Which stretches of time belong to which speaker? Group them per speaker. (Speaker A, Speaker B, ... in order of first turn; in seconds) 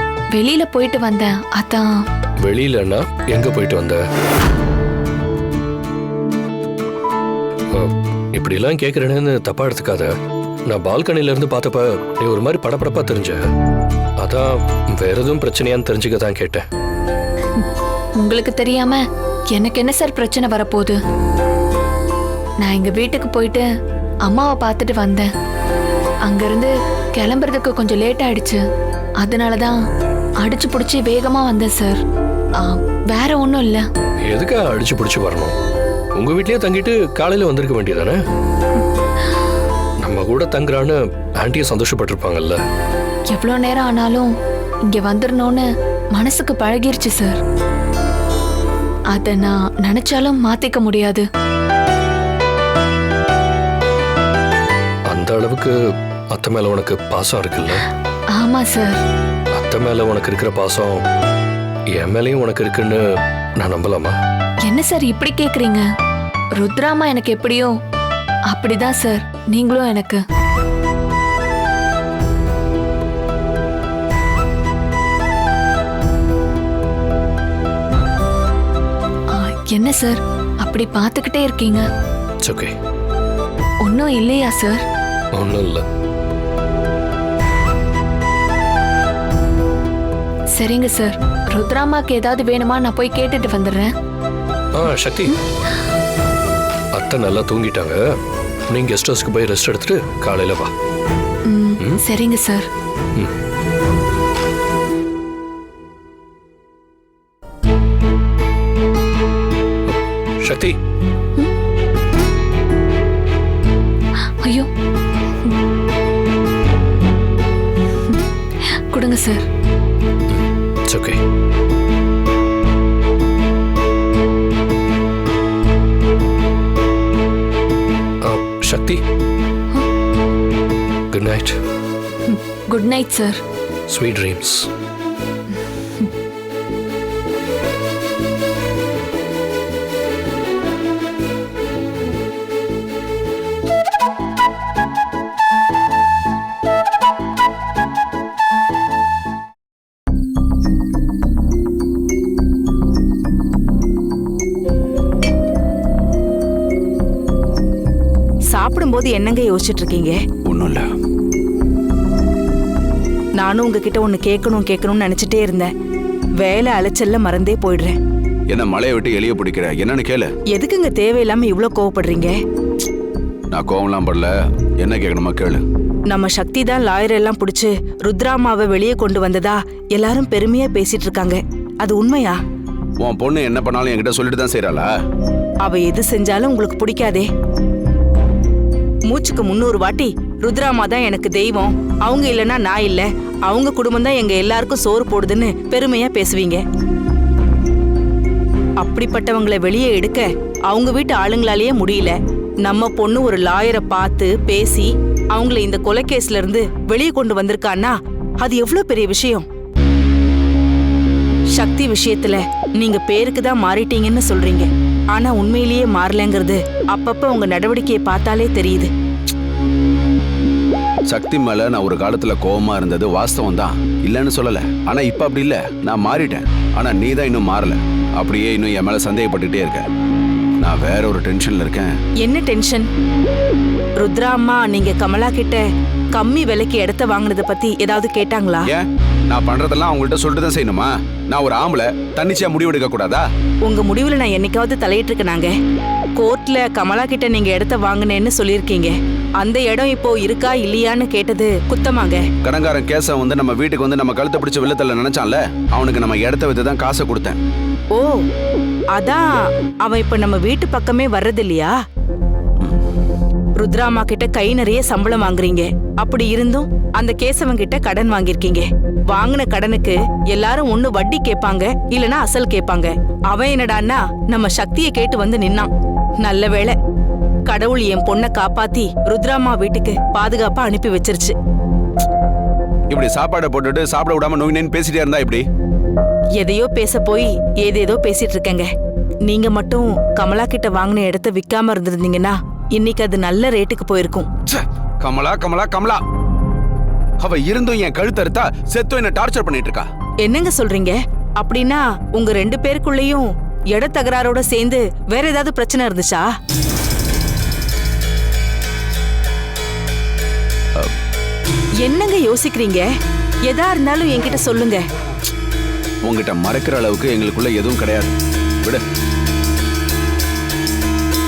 Speaker A: 0.3-1.9, 18.2-19.0, 19.5-21.0, 22.6-23.7, 24.2-25.3, 26.3-28.6, 29.2-29.8, 30.4-32.0, 32.6-33.9, 43.3-44.3, 44.9-47.4, 49.1-51.3, 58.4-59.0, 64.7-65.8, 66.6-67.7, 68.5-70.2, 79.3-81.8, 83.8-84.8, 90.6-93.9, 101.5-102.7, 114.4-114.7, 118.9-119.5, 132.3-133.4
Speaker B: 2.4-4.0, 7.7-10.1, 10.7-13.4, 14.2-16.6, 34.2-35.5, 36.2-38.2, 40.0-42.6, 55.1-55.7, 56.3-57.8, 59.5-61.0, 62.0-63.0, 63.6-64.1, 82.4-82.7, 85.3-85.8, 94.8-95.3, 97.0-98.0, 98.7-100.7, 109.9-110.8, 120.3-121.2, 128.2-129.0, 131.1-131.6, 133.9-134.7
Speaker C: 158.5-160.2, 163.4-165.7, 166.4-168.0, 170.5-172.4, 176.1-182.4, 185.6-187.3, 189.1-196.6, 198.8-209.5, 211.6-218.9, 232.2-232.9, 234.0-235.6, 236.1-238.7, 243.7-245.5, 246.2-252.2, 257.9-258.2, 258.9-259.3, 259.8-261.8, 263.6-275.7, 276.2-276.8, 277.5-281.4, 286.4-288.7, 289.3-294.3, 300.2-306.3, 311.8-312.9, 313.5-314.8
Speaker D: 160.5-160.9, 168.5-170.3, 173.5-175.6, 183.0-184.9, 221.1-229.8, 230.6-231.9, 238.7-243.2, 252.4-257.4, 282.9-285.4, 294.5-296.0, 297.2-299.9, 316.1-318.1